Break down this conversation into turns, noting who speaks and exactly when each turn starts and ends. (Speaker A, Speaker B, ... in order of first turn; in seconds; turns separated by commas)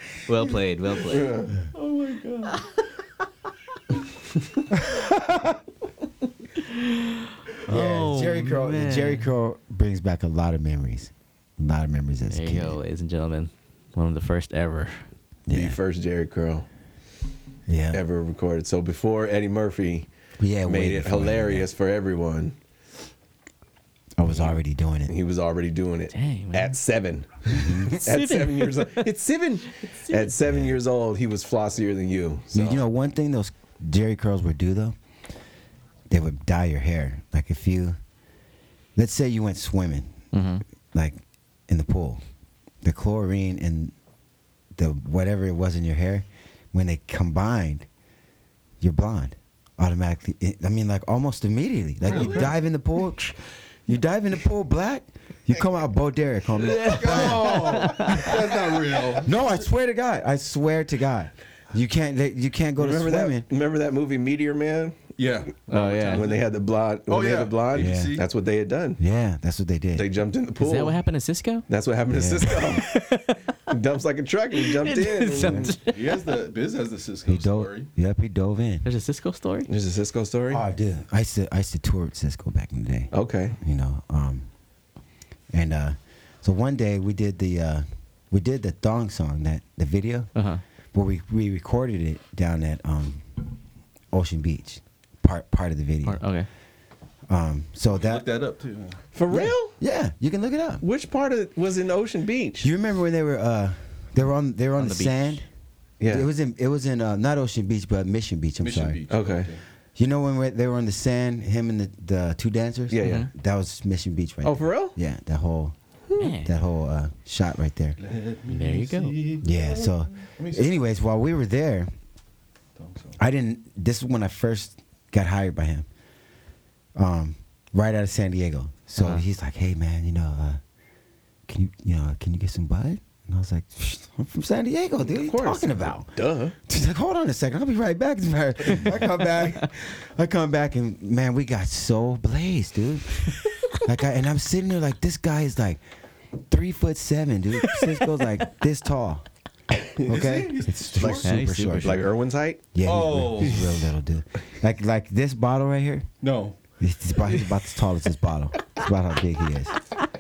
Speaker A: 0.3-1.3, Speaker B: 1.1-1.6, Speaker C: 1.7-2.6, Speaker D: 4.8-5.5, Speaker A: 7.5-9.3, Speaker D: 7.7-12.8, Speaker A: 12.3-15.1, Speaker D: 15.5-15.8, Speaker B: 15.5-16.7, Speaker D: 17.7-18.0, Speaker B: 17.9-20.1, Speaker D: 20.4-21.7, Speaker B: 20.6-22.6, Speaker D: 24.2-25.1, Speaker B: 24.3-32.8, Speaker A: 26.1-26.8, Speaker D: 27.5-28.0, Speaker A: 28.0-29.1, Speaker A: 29.8-30.3, Speaker D: 30.5-30.8, Speaker D: 32.5-35.0, Speaker D: 36.1-38.0, Speaker D: 39.0-40.1, Speaker A: 40.3-40.6, Speaker D: 40.9-42.2, Speaker D: 42.8-43.9, Speaker D: 44.7-47.9, Speaker D: 48.8-58.4, Speaker C: 52.0-52.5, Speaker A: 56.6-58.3, Speaker C: 56.8-59.5, Speaker D: 59.2-63.5, Speaker B: 62.8-65.0, Speaker C: 65.2-66.5, Speaker A: 65.7-66.2, Speaker B: 66.0-69.0, Speaker C: 67.1-68.3, Speaker D: 67.7-68.2, Speaker D: 69.0-70.1, Speaker B: 69.9-71.0, Speaker A: 70.6-71.7, Speaker B: 71.7-72.9, Speaker D: 72.1-72.7, Speaker A: 72.7-73.5, Speaker B: 73.7-75.7, Speaker A: 74.5-76.2, Speaker D: 75.4-75.7, Speaker C: 75.9-77.9, Speaker D: 77.3-78.9, Speaker A: 78.8-79.7, Speaker B: 79.7-80.6, Speaker D: 80.5-84.5, Speaker B: 83.1-83.5, Speaker D: 85.5-90.3, Speaker A: 90.3-90.6, Speaker D: 90.9-93.5, Speaker D: 94.1-96.3, Speaker A: 96.0-96.5, Speaker D: 97.3-98.3, Speaker C: 97.9-99.0, Speaker B: 99.1-99.8, Speaker D: 99.3-100.8, Speaker B: 100.8-102.7, Speaker D: 102.6-105.5, Speaker A: 104.8-105.4, Speaker B: 106.0-106.3, Speaker D: 106.0-109.0, Speaker C: 108.6-109.6, Speaker B: 109.1-109.5, Speaker D: 110.0-115.7, Speaker B: 112.9-113.3, Speaker A: 113.0-113.3, Speaker B: 114.4-115.0, Speaker A: 116.2-116.5, Speaker D: 116.3-118.0, Speaker C: 118.0-120.8, Speaker A: 118.5-119.3, Speaker D: 119.4-121.9, Speaker C: 122.8-123.2, Speaker D: 123.2-125.9, Speaker D: 127.0-130.6, Speaker A: 129.0-129.2, Speaker D: 131.5-136.1, Speaker B: 135.0-136.6, Speaker D: 136.7-145.8, Speaker D: 146.5-149.2, Speaker D: 150.0-152.1, Speaker C: 150.1-151.3, Speaker B: 151.0-152.6, Speaker A: 151.2-152.1, Speaker D: 152.7-156.1, Speaker C: 152.8-153.7, Speaker C: 156.2-156.6, Speaker D: 156.8-159.7